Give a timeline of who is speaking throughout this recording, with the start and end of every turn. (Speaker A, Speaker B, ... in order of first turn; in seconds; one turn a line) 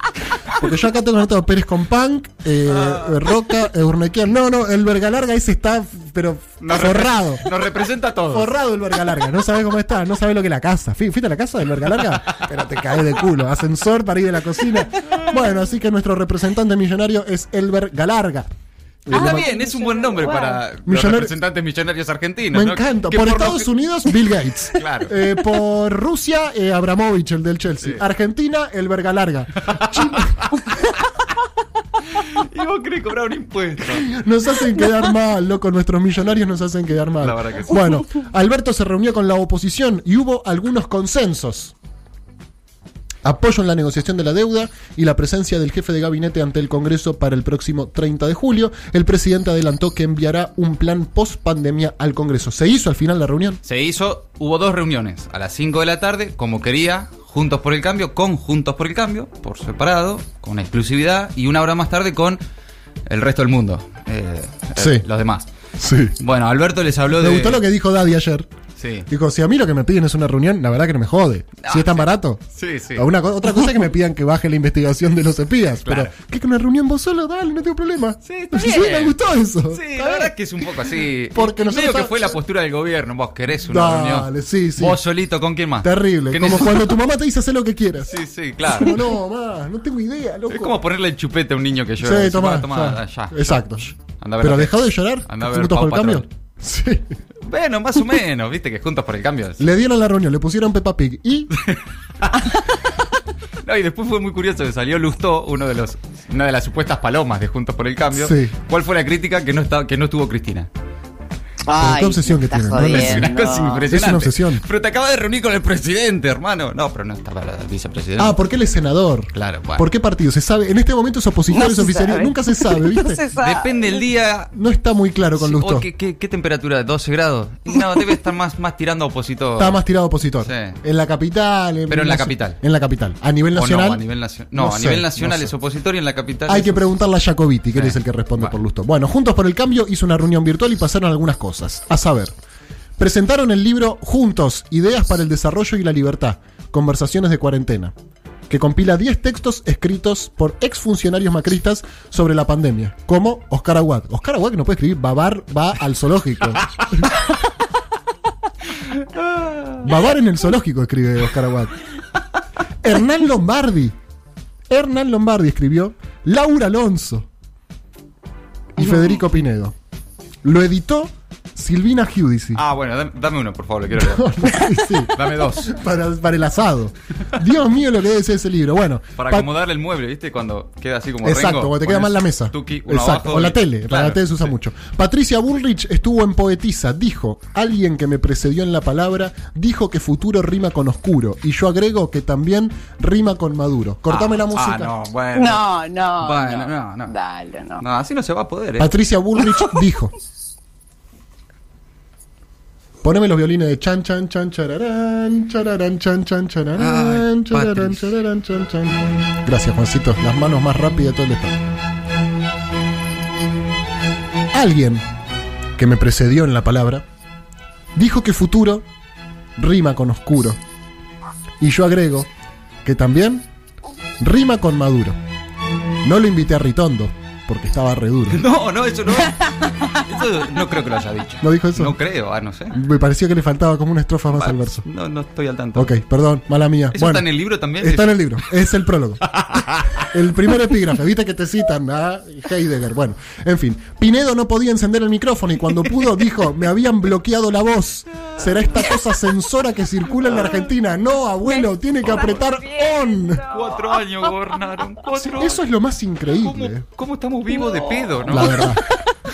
Speaker A: 0.6-7.5
Speaker B: 2.7-3.1
Speaker B: 6.6-8.5
Speaker A: 8.3-18.5
Speaker B: 12.3-12.8
Speaker A: 19.1-19.5
Speaker B: 19.1-23.7
Speaker C: 19.1-20.6
Speaker A: 20.8-21.3
Speaker A: 22.5-30.7
Speaker B: 24.7-25.1
Speaker B: 27.8-28.0
Speaker B: 29.6-31.0
Speaker B: 32.0-34.1
Speaker A: 33.9-41.7
Speaker B: 37.2-38.1
Speaker A: 43.2-53.6
Speaker B: 53.6-62.4
Speaker B: 63.1-65.5
Speaker A: 64.8-65.1
Speaker A: 65.8-66.2
Speaker B: 66.2-67.6
Speaker A: 67.1-68.5
Speaker B: 68.8-69.1
Speaker A: 69.1-72.4
Speaker B: 71.6-73.1
Speaker A: 73.0-80.3
Speaker B: 75.8-76.1
Speaker B: 78.2-79.2
Speaker B: 79.7-87.0
Speaker A: 81.3-82.3
Speaker A: 83.6-85.0
Speaker A: 85.8-90.8
Speaker B: 88.1-89.1
Speaker B: 90.5-96.3
Speaker A: 92.0-97.1
Speaker B: 97.4-99.7
Speaker A: 99.6-101.5
Speaker B: 101.6-102.9
Speaker B: 103.6-110.7
Speaker A: 108.1-108.5
Speaker C: 111.7-113.8
Speaker A: 111.8-114.6
Speaker B: 112.8-118.4
Speaker A: 118.2-123.2
Speaker B: 119.3-119.9
Speaker C: 121.5-123.9
Speaker B: 123.4-124.5
Speaker A: 124.5-125.9
Speaker B: 125.3-129.8
Speaker A: 129.6-134.0
Speaker B: 130.4-130.8
Speaker B: 131.9-132.6
Speaker B: 133.5-136.8
Speaker A: 134.5-135.5
Speaker A: 136.5-142.3
Speaker B: 137.7-138.6
Speaker A: 143.0-147.9
Speaker A: 148.5-157.1
Speaker B: 158.8-159.9
Speaker A: 159.8-161.7
Speaker A: 162.8-163.9
Speaker A: 164.7-167.3
Speaker A: 168.8-169.7
Speaker A: 170.4-172.6
Speaker B: 172.6-175.8
Speaker A: 173.9-179.5
Speaker B: 179.2-184.5
Speaker A: 181.2-194.9
Speaker B: 194.1-195.6
Speaker C: 195.3-197.8
Speaker B: 196.2-197.1
Speaker B: 197.8-198.9
Speaker A: 198.8-200.1
Speaker A: 203.0-211.6
Speaker B: 206.8-208.2
Speaker A: 214.5-215.0
Speaker A: 215.8-217.0
Speaker A: 218.0-218.8
Speaker A: 219.6-220.6
Speaker A: 221.6-222.3
Speaker A: 222.8-223.4
Speaker A: 224.2-225.2
Speaker A: 226.0-228.4
Speaker B: 228.3-232.8
Speaker A: 231.4-232.0
Speaker A: 232.7-234.8
Speaker B: 234.3-236.0
Speaker A: 235.8-239.4
Speaker B: 236.9-238.4
Speaker B: 239.3-240.6
Speaker A: 239.9-253.4
Speaker B: 245.7-246.4
Speaker B: 248.2-248.9
Speaker B: 250.3-250.6
Speaker C: 251.4-254.0
Speaker B: 252.0-252.4
Speaker B: 253.5-255.6
Speaker A: 255.4-256.9
Speaker B: 256.3-258.6
Speaker C: 257.6-258.6
Speaker A: 258.3-258.9